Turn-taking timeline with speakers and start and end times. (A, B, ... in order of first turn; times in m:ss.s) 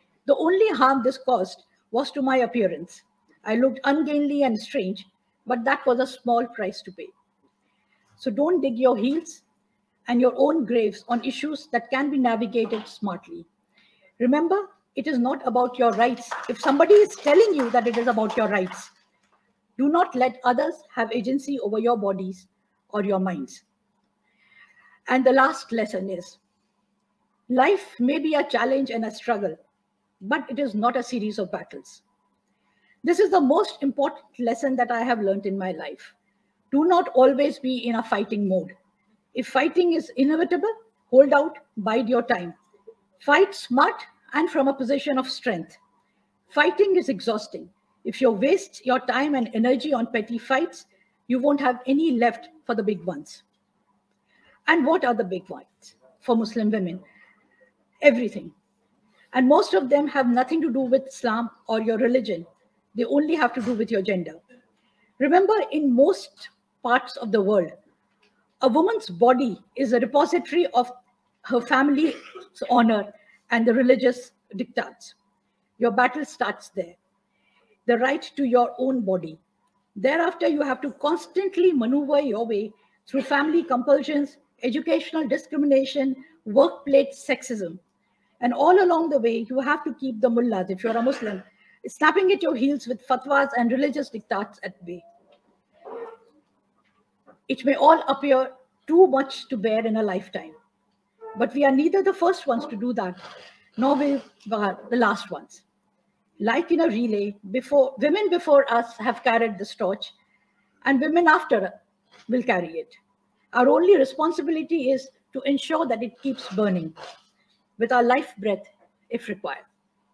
0:00.2-0:07.1 A
0:08.2-0:09.4 A
0:10.1-0:13.5 A
0:14.2-0:18.9 A
0:19.8-0:23.6 A
0:25.1-0:26.4 A
0:27.5-0:29.6 A
0:30.2-0:32.0 A
0:33.0-0:36.1 A
0:36.7-0:38.7 A
0:39.3-0:42.6 A
0:43.2-0:45.8 A
0:46.5-0:53.4 A
0:54.7-0:57.0 A
0:58.0-0:58.5 A
0:59.3-1:04.4 A
1:05.2-1:07.7 A
1:08.6-1:10.9 A
1:11.4-1:15.2 A
1:15.8-1:17.0 A
1:17.8-1:19.4 A
1:19.9-1:27.8 A
1:28.4-1:35.0 A
1:37.5-1:40.5 A
1:41.3-1:43.2 A
1:43.8-1:45.6 A
1:46.4-1:50.1 A
1:50.8-1:51.7 A
1:52.3-1:53.0 A
1:53.5-1:56.9 A
1:57.8-1:59.7 A